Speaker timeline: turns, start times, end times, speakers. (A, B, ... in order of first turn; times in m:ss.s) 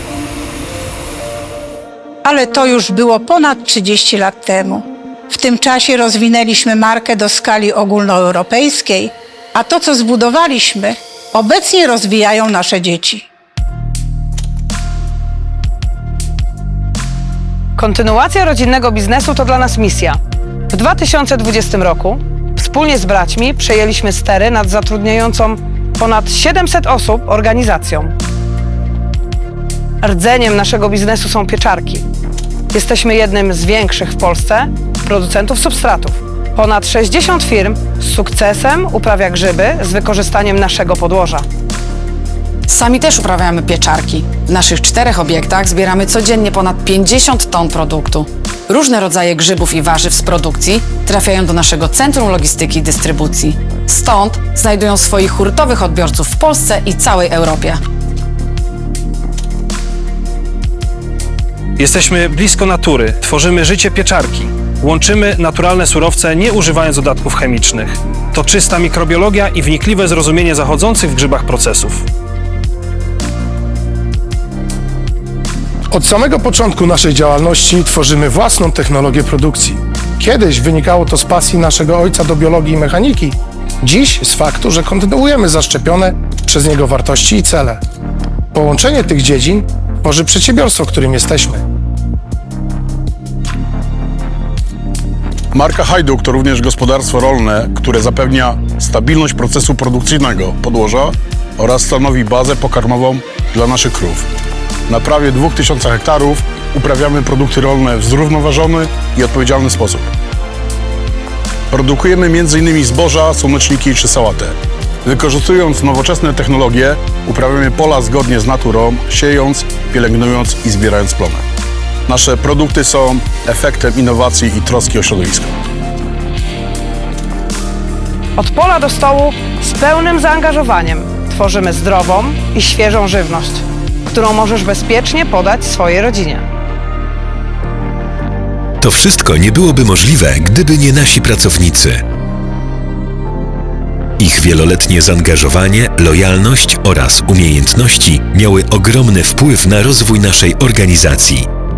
0:02.2-0:13.3 A
0:17.8-0:20.2 B
0:20.7-0:28.2 B
0:30.0-0:32.0 B
0:32.7-0:41.4 B
0:42.7-0:57.8 C
1:01.8-1:12.1 D
1:15.9-1:27.8 E
1:28.5-1:31.6 E
1:35.5-1:44.3 F
1:44.9-1:50.1 F
1:51.7-2:01.4 F
2:02.1-2:05.6 F
2:08.4-2:16.4 B
2:18.8-2:22.0 G
2:24.2-2:31.4 G